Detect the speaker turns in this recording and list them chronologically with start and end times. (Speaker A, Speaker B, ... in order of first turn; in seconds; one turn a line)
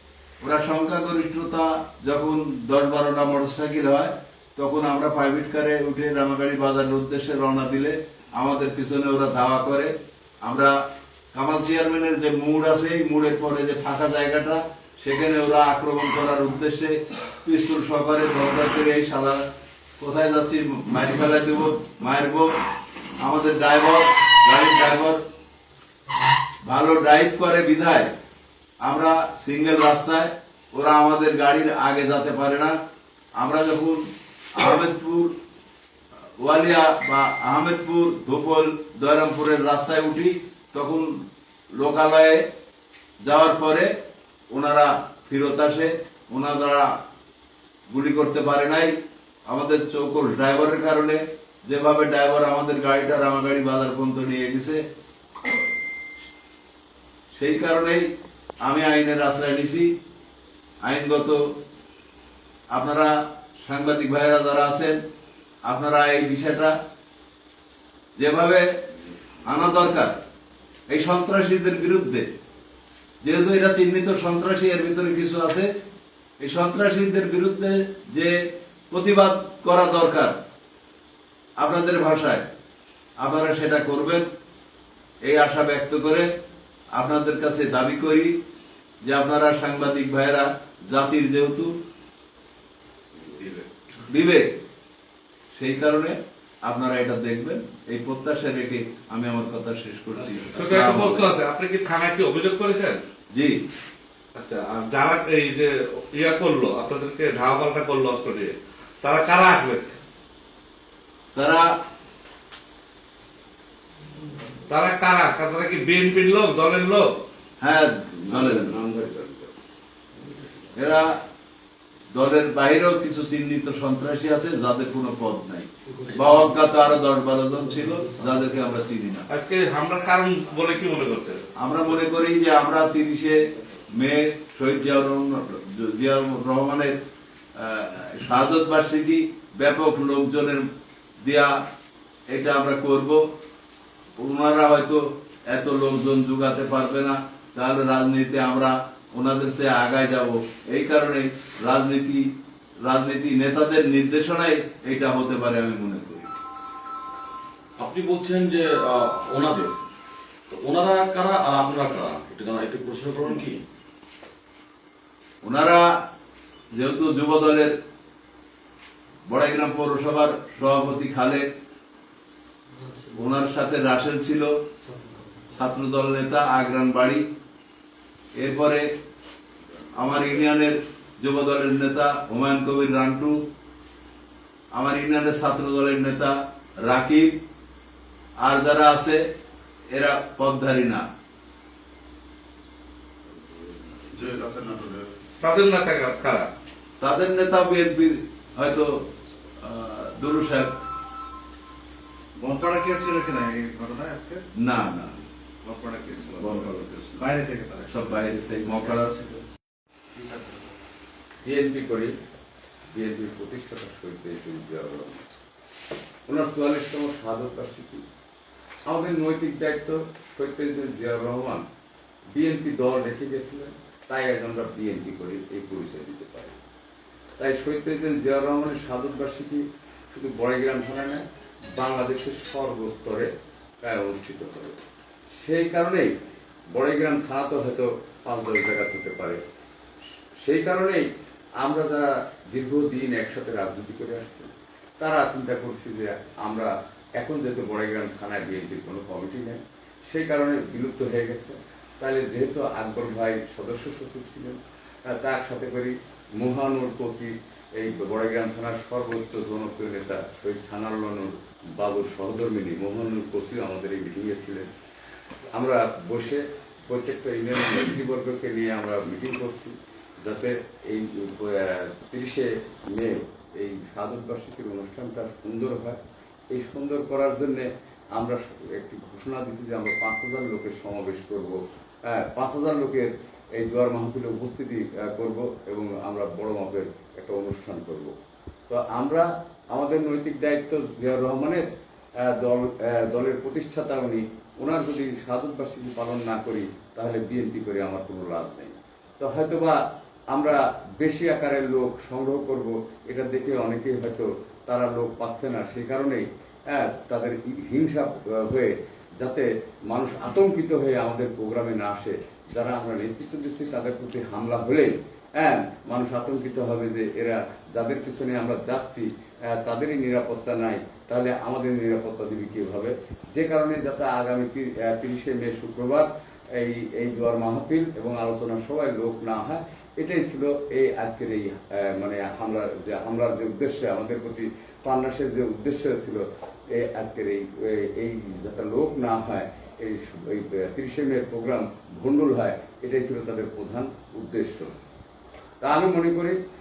Speaker A: 0.4-10.8
Speaker A: 11.3-19.4
Speaker A: 20.0-22.5
Speaker A: 23.2-25.2
Speaker A: 26.6-28.1
Speaker A: 28.8-32.8
Speaker A: 33.4-35.3
Speaker A: 36.4-42.5
Speaker A: 43.2-43.9
Speaker A: 44.5-47.0
Speaker A: 47.9-48.9
Speaker A: 49.5-54.8
Speaker A: 57.3-58.1
Speaker A: 58.6-59.9
Speaker A: 60.8-61.5
Speaker A: 62.7-65.0
Speaker A: 65.7-66.8
Speaker A: 68.2-68.7
Speaker A: 69.5-70.2
Speaker A: 70.9-72.3
Speaker A: 73.2-75.7
Speaker A: 76.4-80.3
Speaker A: 81.6-82.5
Speaker A: 83.2-84.3
Speaker A: 85.2-86.3
Speaker A: 86.9-88.4
Speaker A: 89.0-91.7
Speaker A: 94.0-94.5
Speaker A: 95.5-101.3
Speaker B: 100.5-103.0
Speaker A: 103.3-103.6
Speaker B: 104.4-109.9
Speaker A: 111.3-111.7
Speaker B: 114.7-117.1
Speaker A: 117.6-118.8
Speaker C: 118.3-119.5
Speaker C: 120.3-120.7
Speaker A: 120.8-121.2
Speaker A: 122.1-129.3
Speaker B: 129.3-131.4
Speaker A: 131.6-133.4
Speaker A: 134.0-137.0
Speaker A: 137.6-140.7
Speaker A: 141.2-141.5
Speaker A: 142.3-143.2
Speaker A: 144.2-152.3
Speaker A: 152.8-156.3
Speaker D: 157.8-159.8
Speaker D: 160.5-163.6
Speaker A: 165.4-166.0
Speaker A: 166.7-167.7
Speaker A: 169.3-171.5
Speaker D: 172.8-173.1
Speaker A: 173.1-174.5
Speaker D: 174.8-175.5
Speaker A: 175.5-177.3
Speaker A: 178.3-178.9
Speaker A: 179.9-183.4
Speaker A: 184.7-187.4
Speaker A: 188.4-189.2
Speaker A: 189.9-191.1
Speaker E: 194.1-195.1
Speaker B: 195.4-196.5
Speaker A: 197.0-199.1
Speaker A: 199.6-200.8
Speaker E: 202.4-204.4
Speaker A: 204.6-205.2
Speaker E: 205.6-208.2
Speaker A: 206.2-207.3
Speaker A: 207.9-209.1
Speaker E: 208.8-209.4
Speaker E: 210.2-210.7
Speaker C: 211.4-212.2
Speaker C: 212.9-215.2
Speaker C: 216.3-218.0
Speaker C: 218.9-221.6
Speaker C: 222.3-226.6
Speaker C: 227.4-231.2
Speaker C: 231.8-233.3
Speaker C: 233.8-234.8
Speaker C: 235.3-236.1
Speaker C: 236.7-239.4
Speaker C: 240.4-241.1
Speaker C: 241.6-244.5
Speaker C: 245.0-264.7
Speaker C: 265.6-276.0
Speaker C: 276.5-288.1
Speaker C: 288.7-291.7
Speaker C: 292.2-299.8
Speaker C: 300.3-336.2
Speaker C: 336.8-344.7
Speaker C: 345.6-346.4